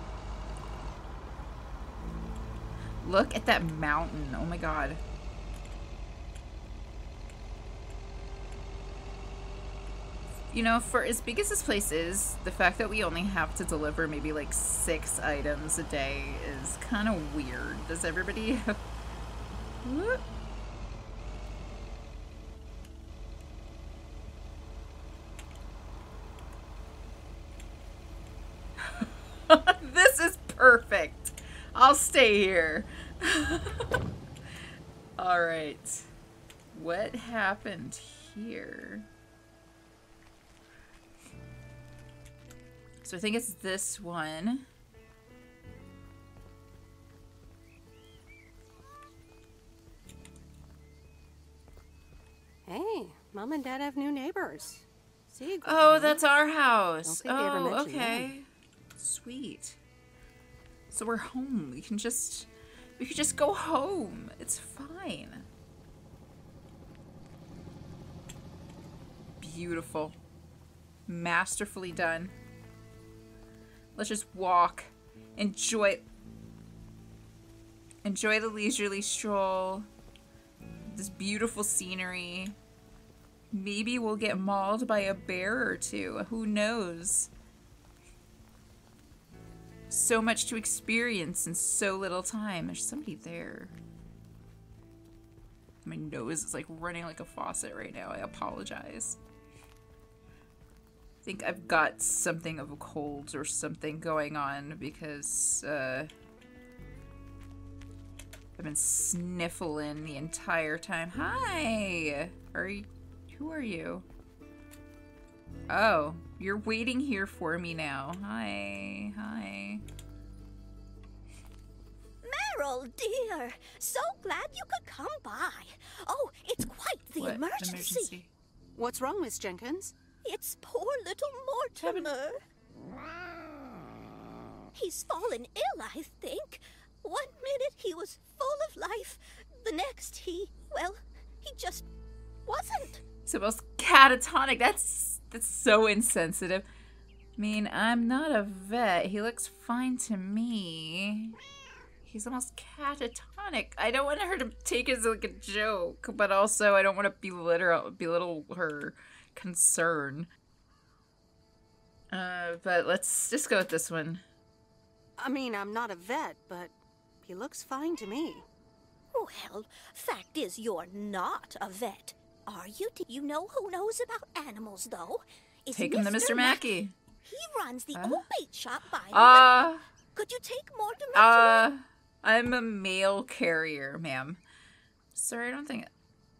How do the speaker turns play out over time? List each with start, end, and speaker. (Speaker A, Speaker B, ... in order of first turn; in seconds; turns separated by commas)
Speaker A: 3.0-5.0, Speaker A: 10.5-18.8, Speaker A: 19.8-20.2, Speaker A: 28.8-34.0, Speaker A: 35.2-36.1, Speaker A: 36.7-39.0, Speaker A: 43.0-44.6, Speaker B: 52.6-56.2, Speaker A: 55.6-58.5, Speaker B: 57.0-58.3, Speaker A: 59.0-59.8, Speaker A: 60.9-65.5, Speaker A: 69.4-70.1, Speaker A: 71.1-72.3, Speaker A: 73.9-76.0, Speaker A: 78.0-79.9, Speaker A: 80.9-82.5, Speaker A: 83.5-87.3, Speaker A: 89.9-93.7, Speaker A: 95.8-99.2, Speaker A: 101.2-106.1, Speaker A: 108.6-114.0, Speaker A: 115.7-119.8, Speaker C: 122.2-128.2, Speaker A: 127.2-128.3, Speaker B: 128.8-129.9, Speaker C: 130.2-132.4, Speaker A: 131.8-132.1, Speaker C: 134.7-141.8, Speaker C: 142.5-143.0, Speaker A: 143.3-146.6, Speaker A: 147.4-151.4, Speaker A: 152.0-160.3, Speaker A: 162.1-164.2, Speaker B: 165.2-168.4, Speaker C: 169.1-176.7, Speaker A: 175.7-176.9, Speaker C: 177.2-179.6, Speaker A: 177.9-178.2, Speaker A: 179.1-179.8, Speaker C: 180.1-181.7, Speaker A: 181.1-184.4, Speaker A: 185.1-185.9